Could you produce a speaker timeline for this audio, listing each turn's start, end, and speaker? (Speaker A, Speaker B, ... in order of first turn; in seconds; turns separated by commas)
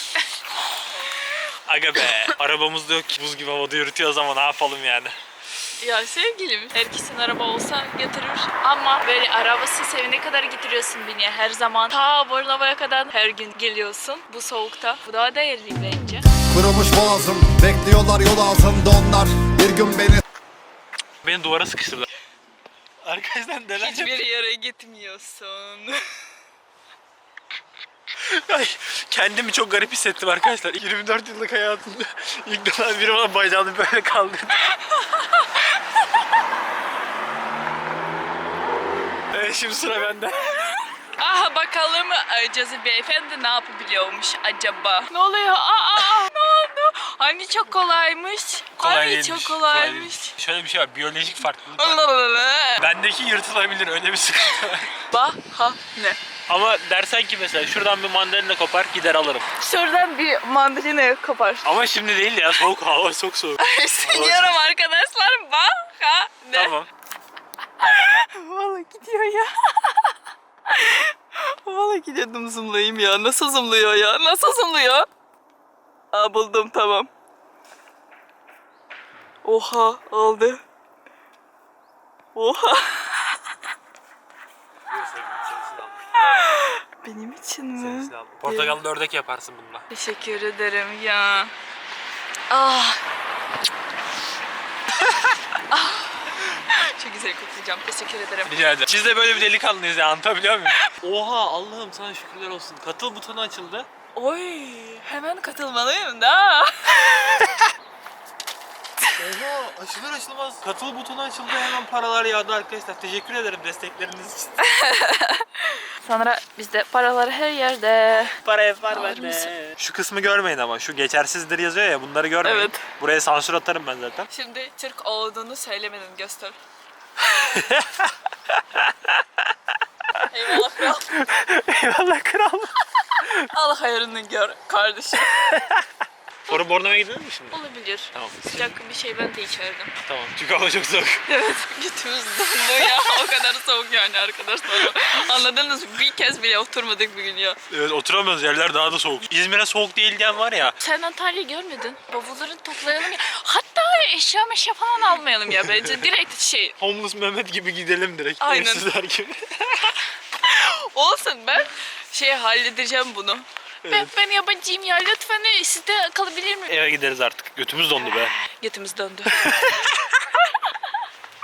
Speaker A: 1.6-5.2, Speaker B: 5.8-16.3, Speaker C: 16.4-20.2, Speaker A: 21.2-22.1, Speaker A: 23.0-24.1, Speaker B: 23.8-26.1, Speaker A: 28.2-34.7, Speaker B: 34.6-36.2, Speaker A: 39.3-40.8, Speaker B: 41.1-50.4, Speaker A: 48.8-52.0, Speaker B: 51.8-52.9, Speaker A: 52.8-55.0, Speaker B: 55.0-56.2, Speaker A: 56.5-59.5, Speaker B: 59.6-61.7, Speaker A: 61.6-64.7, Speaker B: 63.6-66.8, Speaker A: 66.5-66.9, Speaker B: 67.8-70.2, Speaker B: 70.7-75.1, Speaker B: 76.1-77.1, Speaker B: 79.4-80.6, Speaker B: 82.3-83.6, Speaker A: 84.9-86.4, Speaker B: 86.2-88.8, Speaker A: 87.8-89.8, Speaker B: 89.9-91.5, Speaker B: 92.5-93.0, Speaker A: 95.0-95.4, Speaker B: 95.7-98.6, Speaker A: 98.5-103.9, Speaker B: 104.2-107.6, Speaker A: 109.1-114.6, Speaker B: 114.6-119.5, Speaker A: 118.1-124.3, Speaker B: 122.4-122.8, Speaker B: 124.3-126.6, Speaker A: 127.2-129.4, Speaker A: 130.2-133.5, Speaker B: 130.3-131.2, Speaker B: 133.5-135.6, Speaker A: 135.2-135.8, Speaker A: 136.5-137.6, Speaker B: 136.5-139.9, Speaker A: 138.1-138.8, Speaker A: 140.0-141.2, Speaker B: 141.3-147.6, Speaker A: 147.7-150.8, Speaker B: 150.8-156.8, Speaker A: 155.5-156.0, Speaker A: 156.8-160.0, Speaker B: 158.4-158.9, Speaker B: 160.4-166.7, Speaker A: 163.8-164.1, Speaker A: 166.7-168.4, Speaker B: 168.0-169.7, Speaker A: 169.3-170.2, Speaker B: 170.4-171.0